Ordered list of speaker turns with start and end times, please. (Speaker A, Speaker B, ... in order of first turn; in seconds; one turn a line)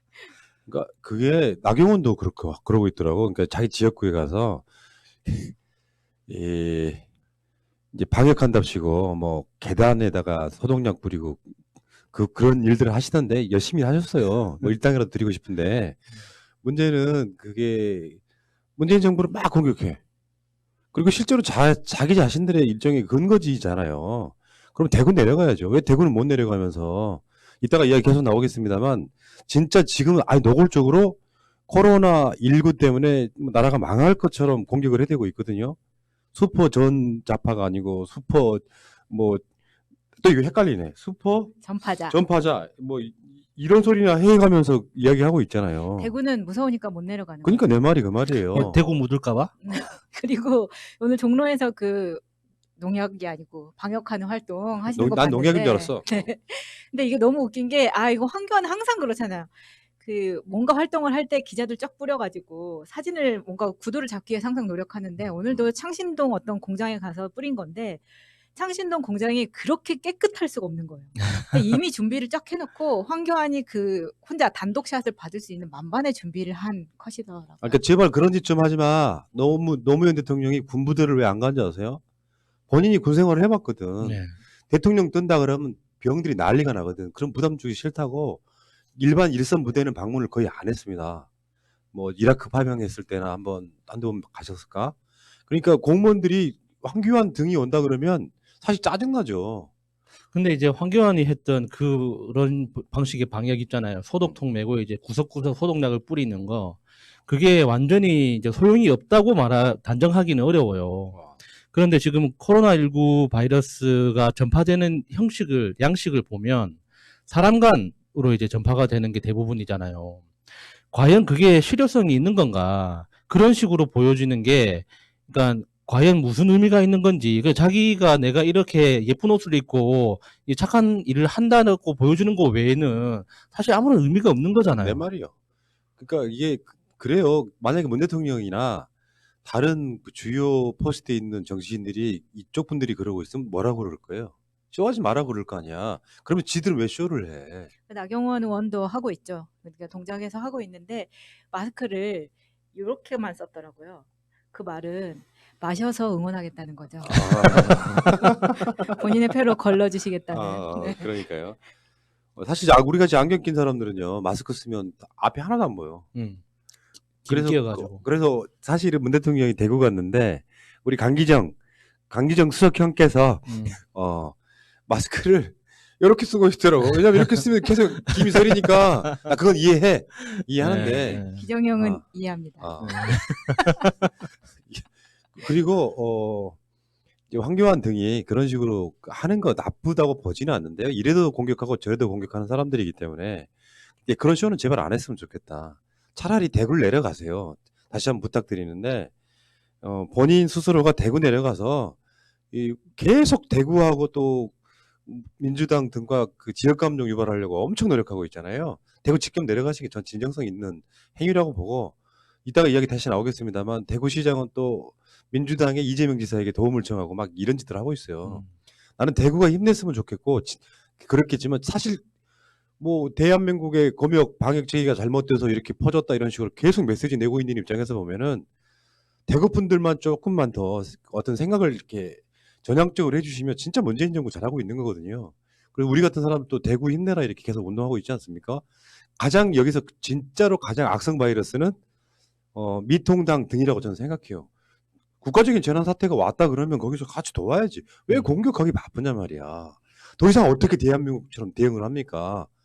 Speaker A: 0.7-4.7
Speaker A: 5.2-5.5
Speaker A: 6.3-7.0
Speaker A: 7.9-11.5
Speaker A: 12.1-16.0
Speaker A: 16.6-18.2
Speaker A: 18.8-20.0
Speaker A: 20.9-35.8
Speaker A: 36.3-39.4
Speaker A: 40.2-41.5
Speaker B: 41.6-42.2
Speaker A: 42.1-46.1
Speaker B: 46.0-47.7
Speaker A: 47.4-48.8
Speaker C: 48.5-49.5
Speaker B: 49.6-52.2
Speaker B: 52.8-77.8
Speaker A: 54.9-56.3
Speaker A: 77.6-82.0
Speaker A: 82.7-88.4
Speaker C: 84.0-84.3
Speaker A: 89.0-91.3
Speaker A: 91.9-95.0
Speaker A: 95.5-99.7
Speaker C: 100.3-111.2
Speaker C: 111.7-120.3
Speaker C: 120.9-135.0
Speaker A: 134.7-135.3
Speaker A: 136.0-138.9
Speaker A: 139.4-147.7
Speaker B: 147.9-157.1
Speaker A: 157.0-158.7
Speaker C: 157.1-158.5
Speaker B: 158.6-161.2
Speaker A: 160.3-161.6
Speaker A: 162.4-166.1
Speaker C: 166.1-166.4
Speaker C: 167.2-168.0
Speaker A: 167.3-171.6
Speaker A: 172.1-174.4
Speaker C: 173.5-173.8
Speaker A: 174.9-181.2
Speaker C: 180.6-181.5
Speaker B: 181.3-183.1
Speaker A: 181.8-182.0
Speaker A: 182.6-183.1
Speaker C: 182.8-184.1
Speaker A: 184.7-186.6
Speaker A: 187.3-199.1
Speaker A: 199.8-202.0
Speaker A: 202.5-204.5
Speaker A: 205.1-218.4
Speaker A: 219.0-222.0
Speaker A: 222.8-228.5
Speaker A: 229.3-238.7
Speaker A: 239.2-241.8
Speaker A: 242.5-244.5
Speaker A: 245.2-252.5